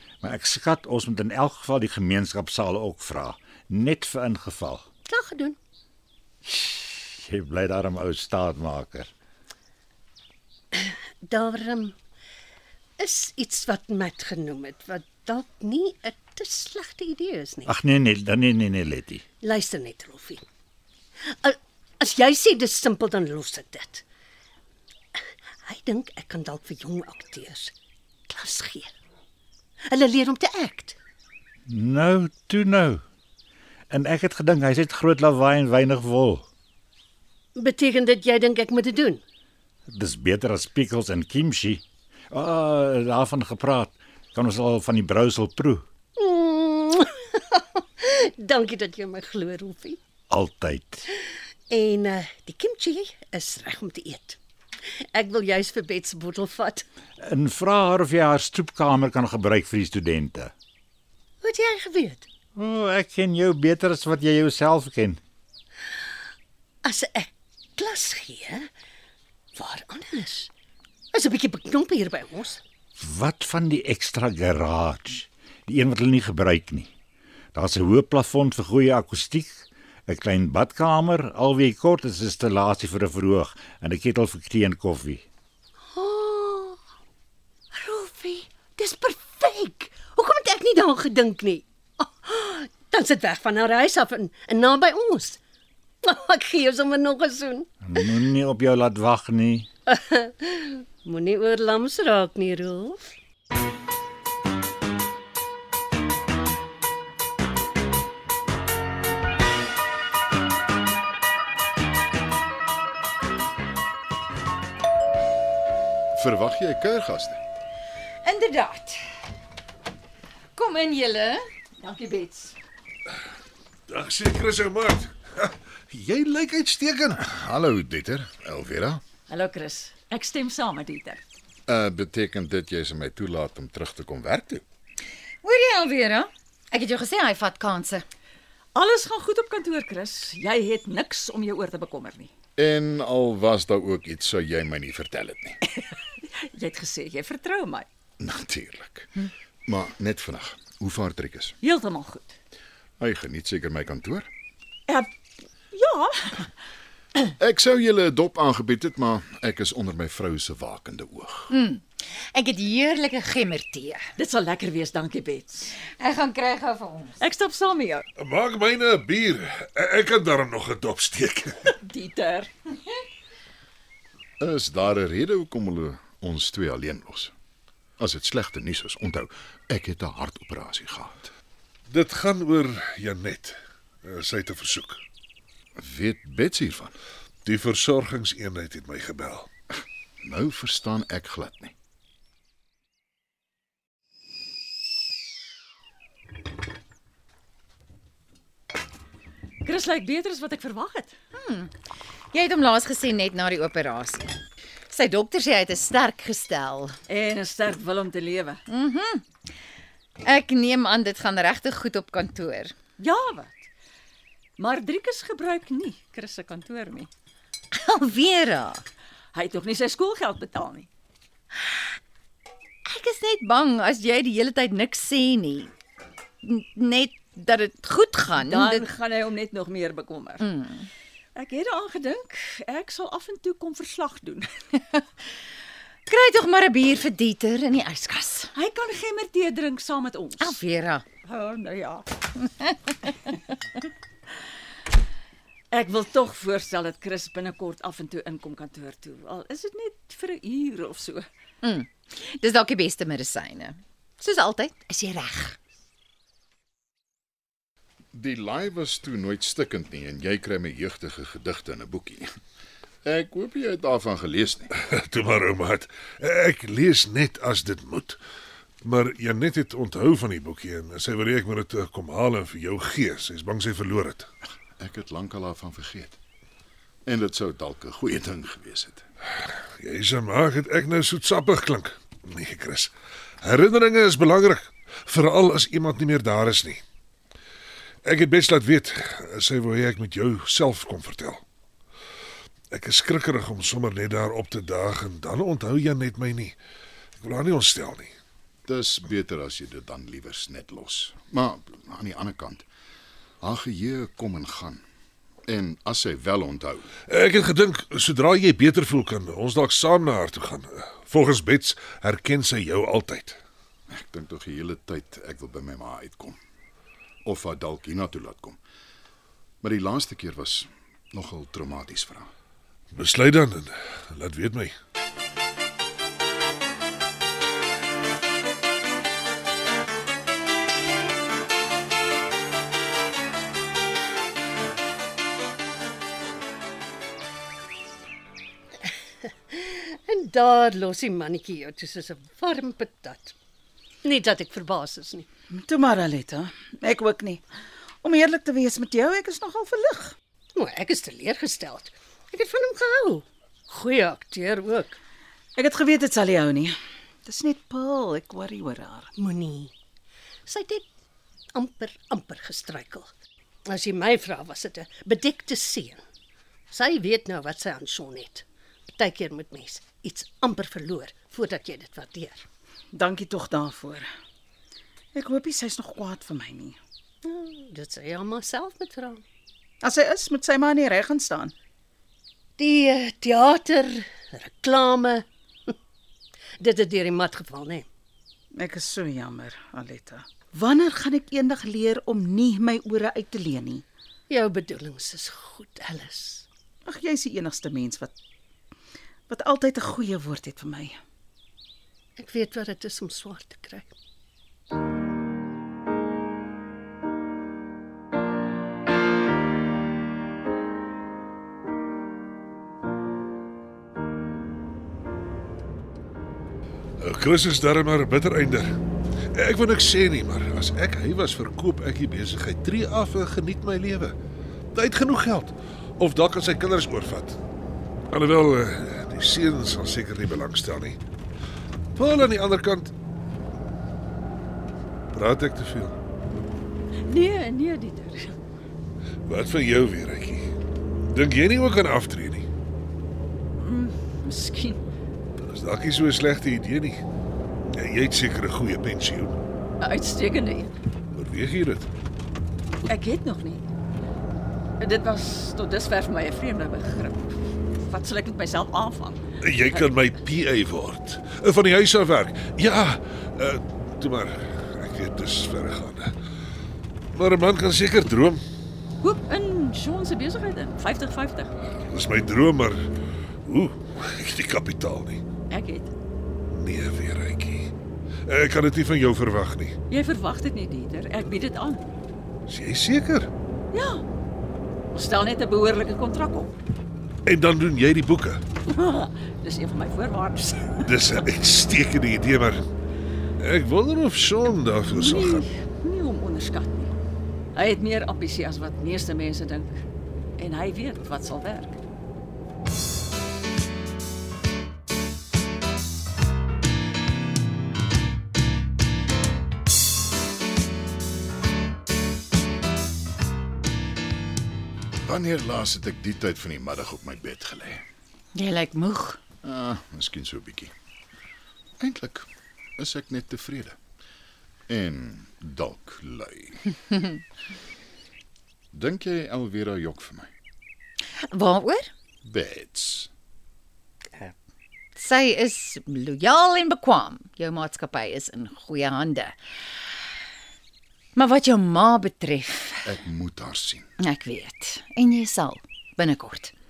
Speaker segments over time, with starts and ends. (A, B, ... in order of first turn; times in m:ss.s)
0:00.2-0:04.8 A
0:05.1-0:05.6 B
0:06.4-0:09.1 A
0:10.7-0:11.9 B
0:13.0-0:17.7 B
0:17.7-0:19.2 A
0:19.4-0:20.4 B
0:21.3-0:24.0 B
0:25.2-0:27.7 B
0:28.3-0:28.9 B
0:29.9-0:31.0 B
0:31.7-0:33.0 A
0:33.9-0:36.4 A
0:37.5-0:39.2 B
0:39.9-0:45.8 A
0:46.2-0:50.0 B
0:50.3-0:51.0 A
0:51.7-0:56.8 B
0:57.2-1:00.5 A
1:01.4-1:02.2 B
1:02.5-1:05.2 A
1:06.8-1:08.6 B
1:09.5-1:10.5 B
1:11.1-1:12.6 B
1:13.0-1:16.9 A
1:17.5-1:25.2 A
1:25.9-1:26.8 B
1:27.7-1:35.4 B
1:36.0-1:37.7 B
1:37.8-1:39.7 A
1:39.9-1:43.1 B
1:56.1-1:57.4 C
1:58.2-1:59.0 D
2:00.5-2:01.5 D
2:01.8-2:02.6 E
2:03.9-2:07.2 F
2:07.2-2:09.0 C
2:09.3-2:11.2 E
2:11.7-2:14.6 C
2:15.4-2:18.0 D
2:18.7-2:22.3 E
2:22.6-2:25.6 C
2:25.8-2:27.9 E
2:28.2-2:31.6 C
2:31.6-2:32.4 E
2:33.0-2:34.3 C
2:35.7-2:36.5 E
2:37.3-2:41.5 C
2:41.5-2:44.1 D
2:44.2-2:45.7 E
2:45.8-2:47.2 D
2:47.2-2:48.0 E
2:48.2-2:51.6 F
2:51.7-2:52.5 E
2:54.4-2:57.3 C
2:58.0-3:01.3 C
3:01.9-3:05.0 F
3:05.8-3:07.0 C
3:07.4-3:09.5 F
3:10.2-3:11.7 C
3:19.6-3:21.2 E
3:21.3-3:21.7 D
3:22.3-3:24.4 D
3:24.9-3:27.0 D
3:27.1-3:28.6 E
3:28.7-3:29.2 D
3:30.2-3:32.7 D
3:33.0-3:33.7 E
3:34.6-3:37.1 E
3:37.7-3:38.8 D
3:39.3-3:40.9 E
3:42.8-3:45.7 D
3:46.4-3:48.9 D
3:48.4-3:50.5 E
3:50.4-3:50.9 D
3:51.3-3:54.5 E
3:56.1-3:58.5 D
3:58.5-4:00.6 E
4:00.4-4:01.0 D
4:01.2-4:02.4 E
4:02.6-4:02.9 D
4:05.7-4:11.3 E
4:11.6-4:15.6 D
4:18.1-4:22.3 C
4:23.0-4:24.7 C
4:24.8-4:28.2 F
4:28.8-4:34.3 F
4:34.8-4:36.2 C
4:37.0-4:39.0 C
4:39.5-4:42.9 F
4:43.4-4:46.8 F
4:48.0-4:51.4 F
4:52.7-4:56.6 F
4:57.2-4:58.1 F
4:58.6-5:02.6 C
5:03.4-5:04.8 C
5:05.5-5:06.9 C
5:07.1-5:13.4 F
5:13.9-5:16.4 C
5:17.2-5:18.6 C
5:19.6-5:22.3 C
5:22.9-5:24.7 F
5:39.5-5:43.3 B
5:44.0-5:45.3 B
5:45.5-5:47.4 G
5:48.0-5:50.1 G
5:50.5-5:55.0 B
5:55.6-5:59.1 G
5:59.2-5:59.7 B
6:00.5-6:00.8 B
6:01.5-6:03.1 B
6:03.7-6:06.0 B
6:06.7-6:08.4 B
6:09.0-6:12.4 B
6:12.9-6:14.1 G
6:15.1-6:16.8 G
6:17.2-6:19.2 B
6:19.8-6:21.5 G
6:22.6-6:25.7 B
6:26.6-6:27.8 B
6:28.5-6:33.8 G
6:34.3-6:36.4 B
6:36.8-6:38.1 G
6:39.3-6:41.0 G
6:42.2-6:43.9 B
6:57.0-6:58.7 F
6:59.3-7:04.1 F
7:04.7-7:07.4 F
7:08.1-7:11.0 F
7:12.0-7:12.9 F
7:15.1-7:16.0 F
7:17.1-7:18.4 E
7:19.2-7:20.5 F
7:21.0-7:22.5 F
7:23.6-7:24.8 E
7:25.4-7:27.0 F
7:27.7-7:29.4 F
7:29.8-7:30.7 E
7:31.1-7:31.9 F
7:32.8-7:33.6 E
7:34.8-7:40.1 E
7:39.4-7:46.1 F
7:47.1-7:48.4 F
7:49.0-7:51.5 E
7:51.9-7:52.8 F
7:53.4-7:55.2 F
7:55.5-7:55.9 E
7:56.5-7:57.7 F
7:58.2-7:59.8 F
7:59.9-8:01.8 E
8:02.5-8:03.3 F
8:03.7-8:04.0 E
8:04.9-8:06.6 E
8:07.2-8:08.4 F
8:08.7-8:10.9 E
8:10.8-8:12.6 F
8:13.4-8:15.4 F
8:14.9-8:16.9 E
8:17.5-8:19.8 E
8:20.4-8:21.8 E
8:35.0-8:37.8 C
8:38.3-8:39.2 D
8:39.4-8:40.7 C
8:41.8-8:43.8 C
8:44.7-8:46.8 C
8:48.7-8:50.3 C
8:51.3-8:51.9 D
8:52.2-8:53.1 C
8:55.0-8:59.4 D
9:01.2-9:02.9 D
9:02.8-9:03.9 C
9:04.0-9:06.5 D